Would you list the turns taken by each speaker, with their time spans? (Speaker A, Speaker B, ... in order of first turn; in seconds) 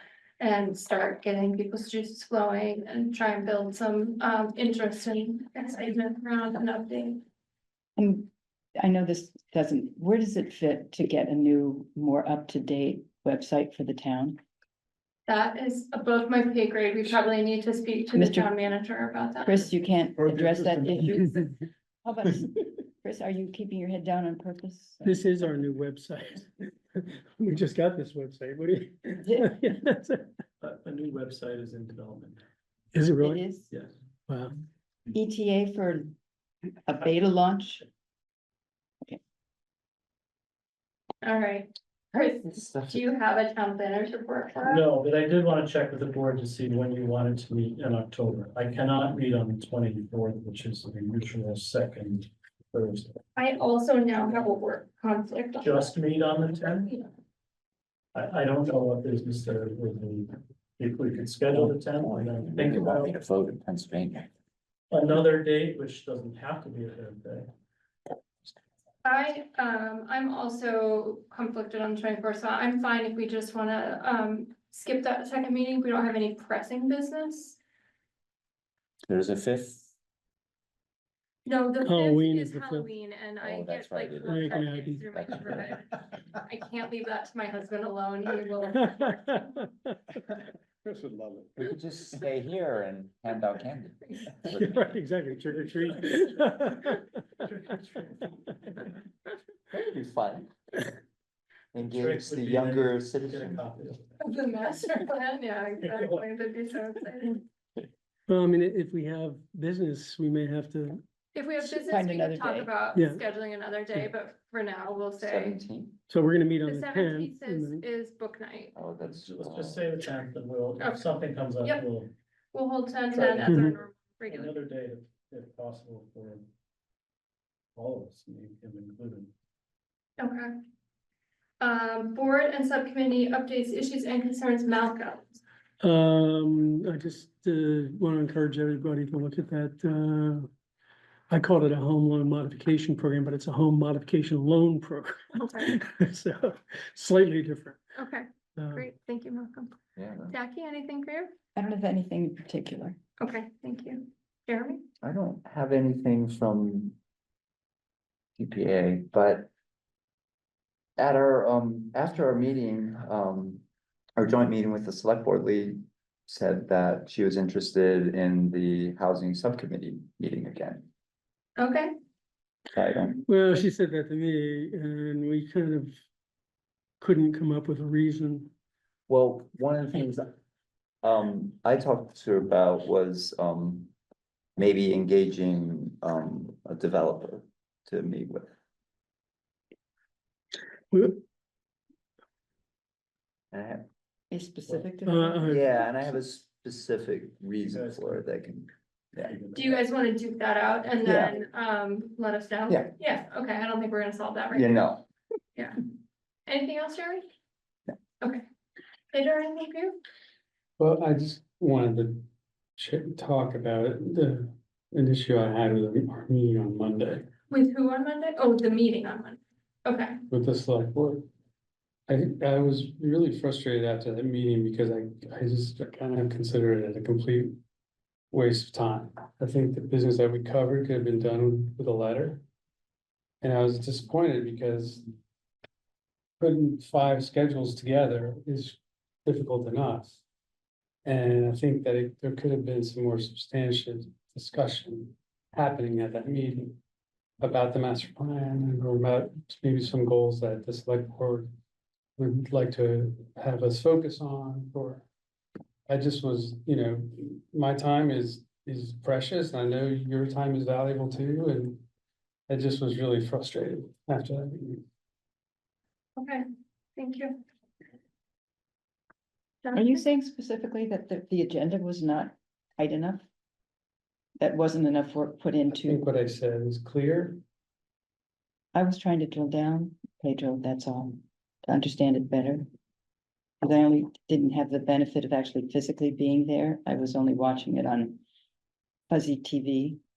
Speaker A: 0.4-7.2, 15.3-19.7, 41.2-44.8, 53.4-55.9, 56.7-57.1, 69.0-77.6, 81.4-89.5, 104.2-107.4, 111.3-115.6, 116.6-118.7, 120.8-121.0, 122.5-124.5, 130.2-130.5, 131.6-135.4, 145.3-145.8, 148.0-149.8, 150.3-151.3, 153.2-154.8, 171.6-171.9, 199.5-204.9, 206.5-207.2, 209.1-210.0, 217.5-220.2, 266.2-266.4, 266.9-267.4, 269.6-270.0
Speaker B: 8.0-14.4, 18.1-18.5, 19.4-25.5, 29.2-29.6, 33.2-33.7, 35.1-36.2, 36.9-37.9, 111.6-112.7, 151.6-153.0, 194.3-195.6, 201.0-201.3, 269.7-273.2, 274.4-276.0, 278.7-282.6, 283.6-288.2, 289.1-290.0
Speaker C: 20.2-21.2, 30.6-32.4, 44.6-53.2, 55.6-56.9, 58.1-63.2, 64.9-67.5, 90.8-91.5, 97.4-98.8, 101.9-104.2, 105.8-106.2, 119.0-122.1, 123.1-123.7, 124.2-126.4, 127.8-129.3, 197.6-198.3, 199.2-199.9
Speaker D: 25.1-30.3, 32.9-33.4, 34.3-34.5, 81.8-82.9, 84.2-85.0, 89.3-89.7, 94.4-97.1, 108.3-111.0, 112.9-113.2, 116.1-117.8, 135.8-140.5, 141.3-147.8, 148.6-148.8, 173.2-175.9, 177.0-178.5, 190.9-191.2, 195.1-195.8
Speaker E: 42.1-43.0, 61.5-64.3, 79.1-79.9, 83.4-85.8, 91.6-94.8, 99.7-100.5, 101.7-103.6, 115.2-116.0, 118.8-119.9, 149.9-150.3, 155.0-157.0, 158.4-159.5, 161.0-163.6, 164.2-170.9, 172.7-173.2, 179.1-180.2, 181.0-183.9, 184.6-188.5, 193.5-193.8, 195.4-199.3, 204.5-205.0
Speaker F: 210.8-212.2, 212.8-217.3, 220.3-221.2, 222.1-227.6, 228.3-232.4, 233.4-235.1, 236.4-240.2, 241.0-246.8, 247.4-251.5, 252.2-255.1, 255.9-261.8, 262.5-264.8, 275.8-277.4